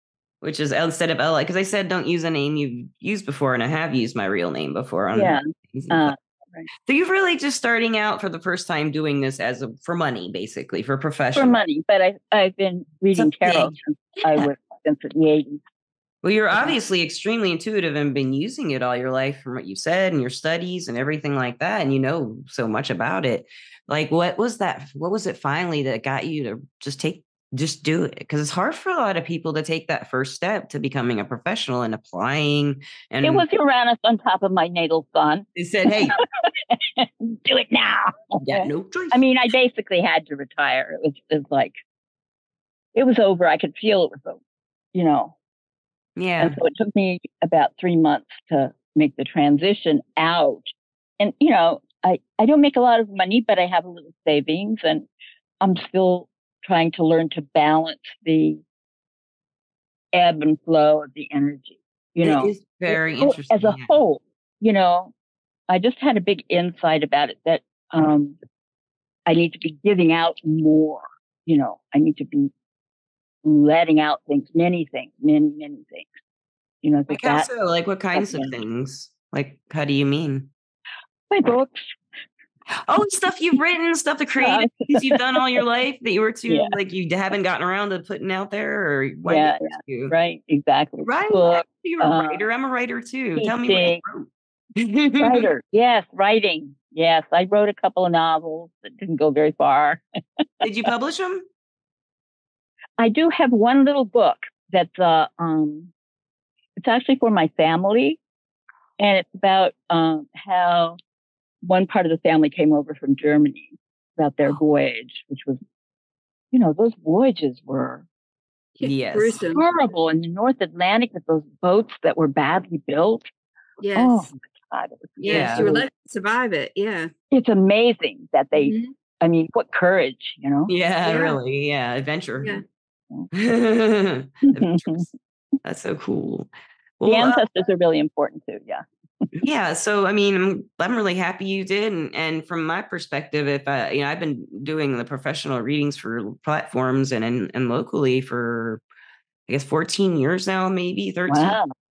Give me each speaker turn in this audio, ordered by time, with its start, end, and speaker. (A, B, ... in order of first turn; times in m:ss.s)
0:00.4-0:06.1 A
0:05.1-0:06.7 B
0:06.8-0:11.6 A
0:11.3-0:15.6 B
0:13.1-0:14.5 A
0:16.2-0:33.4 A
0:33.2-0:41.7 B
0:35.5-0:36.2 A
0:38.4-0:39.2 A
0:42.9-0:44.4 B
0:44.9-0:45.4 B
0:46.2-0:46.6 A
0:46.4-0:55.1 B
0:55.6-0:58.6 B
1:00.1-1:05.1 B
1:02.2-1:03.9 A
1:05.7-1:08.4 B
1:09.3-1:12.5 B
1:13.4-1:16.1 B
1:16.8-1:17.5 B
1:17.1-1:20.5 A
1:18.1-1:18.5 B
1:21.3-1:21.8 B
1:22.8-1:30.1 A
1:24.4-1:25.4 B
1:26.5-1:26.7 B
1:29.2-1:32.4 B
1:31.0-1:35.4 A
1:33.4-1:34.0 B
1:35.2-1:40.0 B
1:40.6-1:41.4 A
1:43.0-1:45.9 B
1:46.8-1:48.2 B
1:49.0-1:51.0 B
1:51.6-1:55.6 B
1:56.5-1:58.0 B
1:58.8-1:59.6 C
1:58.8-1:59.4 A
1:59.5-2:03.2 B
2:03.8-2:04.3 C
2:03.9-2:05.8 B
2:05.2-2:07.1 C
2:05.3-2:05.7 A
2:07.3-2:11.4 B
2:08.6-2:08.9 C
2:10.7-2:12.6 A
2:13.3-2:15.1 A
2:14.4-2:15.0 B
2:15.6-2:17.4 A
2:17.0-2:19.3 B
2:19.4-2:28.8 A
2:29.5-2:31.6 A
2:31.3-2:31.7 B